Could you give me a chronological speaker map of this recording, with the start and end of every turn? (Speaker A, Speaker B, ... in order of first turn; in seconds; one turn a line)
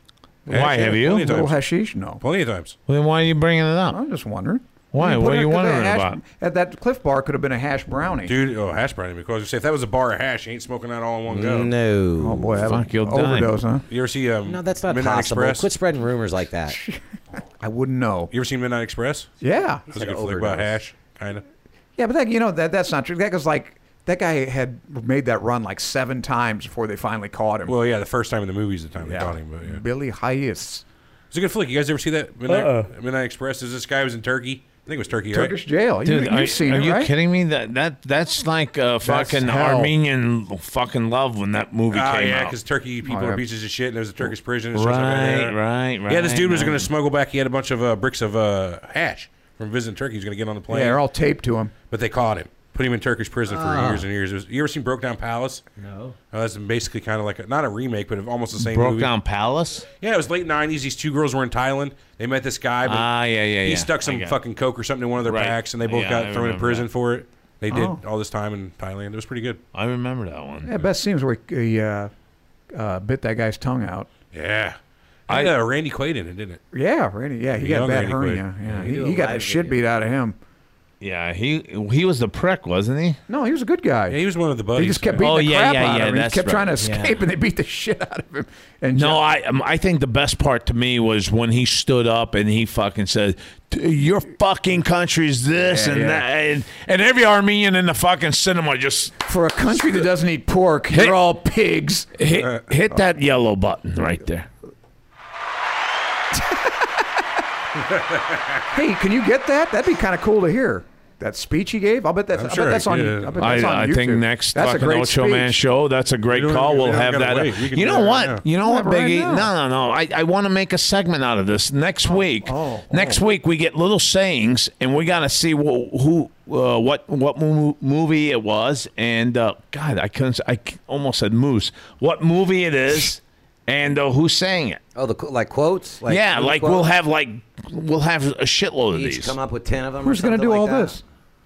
Speaker A: 0.5-1.6
Speaker B: 0.5-1.3
Speaker C: 1.2-2.2
Speaker A: 2.2-2.8
Speaker B: 2.9-4.0
Speaker C: 3.9-8.3
Speaker B: 4.9-6.2
Speaker A: 8.3-11.7
Speaker D: 11.3-12.7
Speaker C: 12.2-13.8
Speaker B: 12.6-13.6
Speaker A: 13.9-15.7
Speaker D: 14.4-16.8
Speaker C: 17.6-18.3
Speaker A: 18.3-19.3
Speaker C: 19.4-19.9
Speaker A: 19.9-21.4
Speaker D: 19.9-20.8
Speaker C: 22.0-27.8
Speaker A: 27.7-29.8
Speaker C: 29.0-30.9
Speaker A: 31.3-35.5
Speaker C: 35.3-37.1
Speaker B: 36.0-42.6
Speaker C: 39.0-39.9
Speaker A: 41.9-51.0
Speaker C: 43.0-43.4
Speaker B: 44.7-46.9
Speaker C: 50.7-51.7
Speaker A: 51.9-55.6
Speaker D: 53.5-54.1
Speaker D: 55.8-56.1
Speaker A: 56.3-59.1
Speaker B: 58.6-59.9
Speaker A: 60.0-63.1
Speaker B: 62.9-64.4
Speaker A: 63.6-69.6
Speaker B: 65.2-66.9
Speaker C: 67.7-68.0
Speaker B: 69.7-70.8
Speaker C: 70.6-72.1
Speaker C: 72.7-74.1
Speaker A: 74.3-76.6
Speaker C: 76.7-80.4
Speaker A: 77.5-78.9
Speaker D: 78.8-79.8
Speaker B: 81.0-83.2
Speaker C: 83.3-84.2
Speaker A: 84.1-85.2
Speaker C: 84.8-89.2
Speaker B: 85.2-87.2
Speaker B: 89.0-99.2
Speaker C: 95.6-96.3
Speaker C: 99.2-102.1
Speaker B: 102.2-104.5
Speaker C: 106.3-107.1
Speaker A: 107.8-108.7
Speaker C: 108.7-115.6
Speaker A: 112.3-113.5
Speaker B: 113.4-134.8
Speaker A: 116.3-118.4
Speaker C: 118.6-119.5
Speaker C: 122.0-123.2
Speaker D: 134.9-136.9
Speaker B: 136.1-139.4
Speaker D: 138.9-141.0
Speaker C: 140.0-141.0